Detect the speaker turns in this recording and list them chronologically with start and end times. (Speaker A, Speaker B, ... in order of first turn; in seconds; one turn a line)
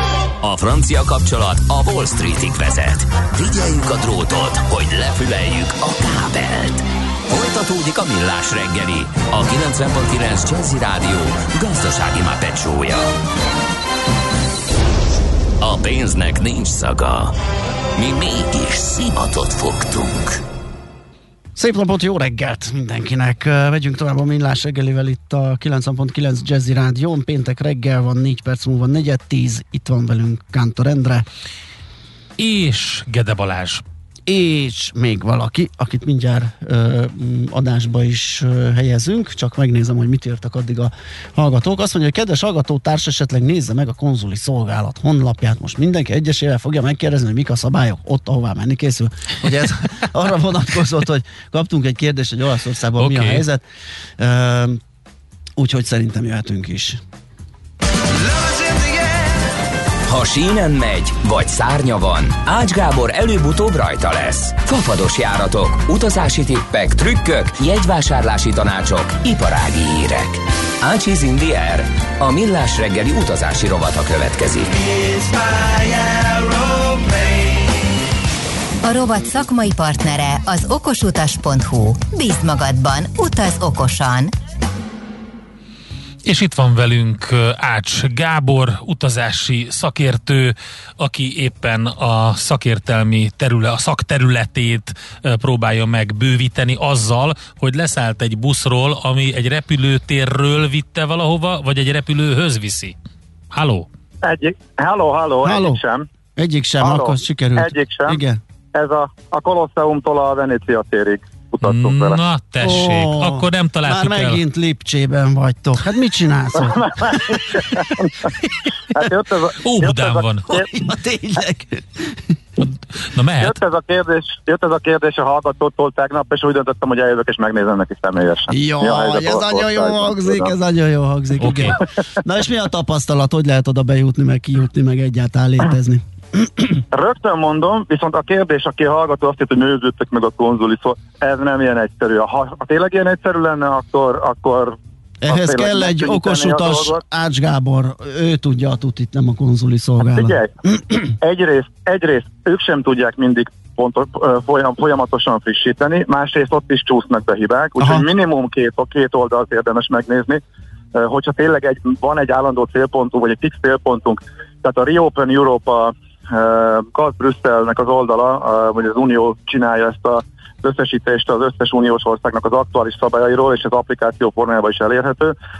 Speaker A: 0.4-13.1
Speaker A: 15.6-17.3
Speaker A: 18.0-20.4
Speaker B: 21.6-31.2
Speaker C: 32.4-33.8
Speaker B: 34.3-53.6
Speaker C: 53.0-53.4
Speaker B: 54.2-54.8
Speaker B: 55.6-57.0
Speaker A: 58.3-59.0
Speaker A: 60.1-75.6
Speaker A: 76.1-77.2
Speaker D: 78.8-84.3
Speaker C: 86.2-103.0
Speaker C: 103.5-103.9
Speaker E: 104.2-106.1
Speaker B: 105.4-105.8
Speaker B: 106.4-108.4
Speaker E: 106.8-108.2
Speaker E: 108.7-112.2
Speaker C: 111.6-114.4
Speaker B: 112.6-117.8
Speaker E: 116.6-118.3
Speaker E: 118.9-120.7
Speaker C: 119.6-120.5
Speaker B: 120.7-122.2
Speaker C: 122.6-123.6
Speaker E: 123.4-130.5
Speaker B: 128.5-136.8
Speaker C: 131.4-131.8
Speaker E: 136.9-147.0
Speaker B: 145.2-150.7
Speaker E: 150.0-150.5
Speaker E: 151.2-160.4
Speaker B: 157.8-158.1
Speaker E: 160.9-175.3